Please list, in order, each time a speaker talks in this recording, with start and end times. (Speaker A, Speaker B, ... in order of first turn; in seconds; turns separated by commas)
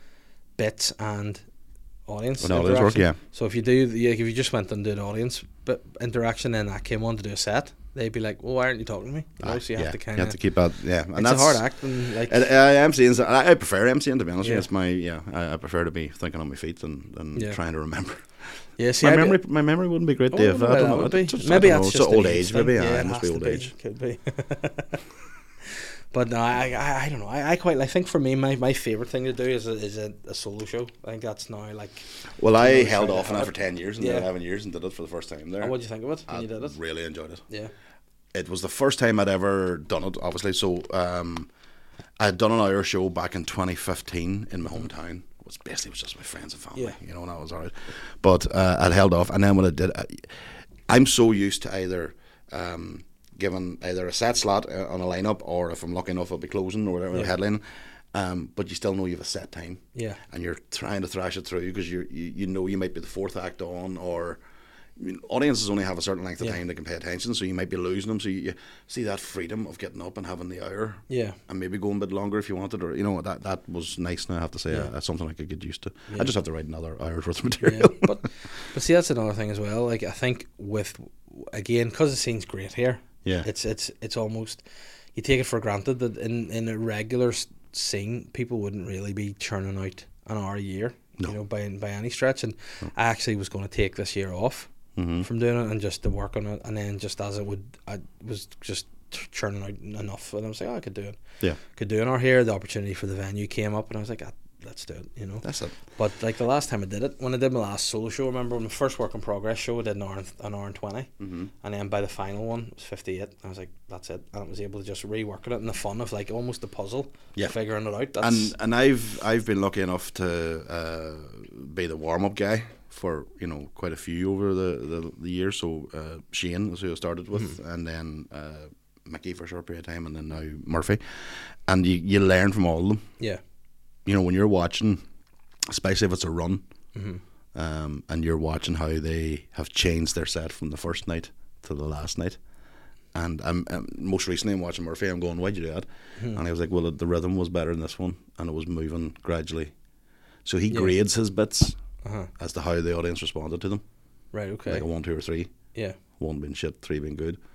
Speaker A: 0.6-1.4, Speaker A: 2.1-10.4, Speaker B: 2.4-3.2, Speaker B: 9.4-18.2, Speaker A: 11.1-12.4, Speaker A: 14.4-14.7, Speaker A: 18.8-19.4, Speaker B: 19.0-23.7, Speaker A: 20.3-25.0, Speaker A: 26.1-32.1, Speaker B: 32.4-35.7, Speaker A: 32.6-34.3, Speaker A: 35.6-36.8, Speaker B: 36.3-37.4, Speaker B: 38.3-41.5, Speaker B: 42.2-50.3, Speaker B: 50.9-64.4, Speaker A: 59.9-60.2, Speaker B: 65.0-78.1, Speaker A: 71.1-71.4, Speaker A: 77.6-84.6, Speaker A: 85.1-94.7, Speaker B: 95.0-95.2, Speaker A: 95.2-111.1, Speaker B: 105.4-105.7, Speaker B: 111.2-111.5, Speaker A: 111.6-118.5, Speaker B: 118.2-131.0, Speaker B: 131.7-133.0, Speaker B: 134.1-135.0, Speaker B: 135.7-136.6, Speaker A: 136.9-137.2, Speaker B: 137.5-142.4, Speaker B: 143.1-149.7, Speaker B: 150.4-151.8, Speaker A: 152.0-152.3, Speaker B: 152.4-153.8, Speaker A: 154.3-154.8, Speaker B: 154.7-155.5, Speaker B: 156.2-157.4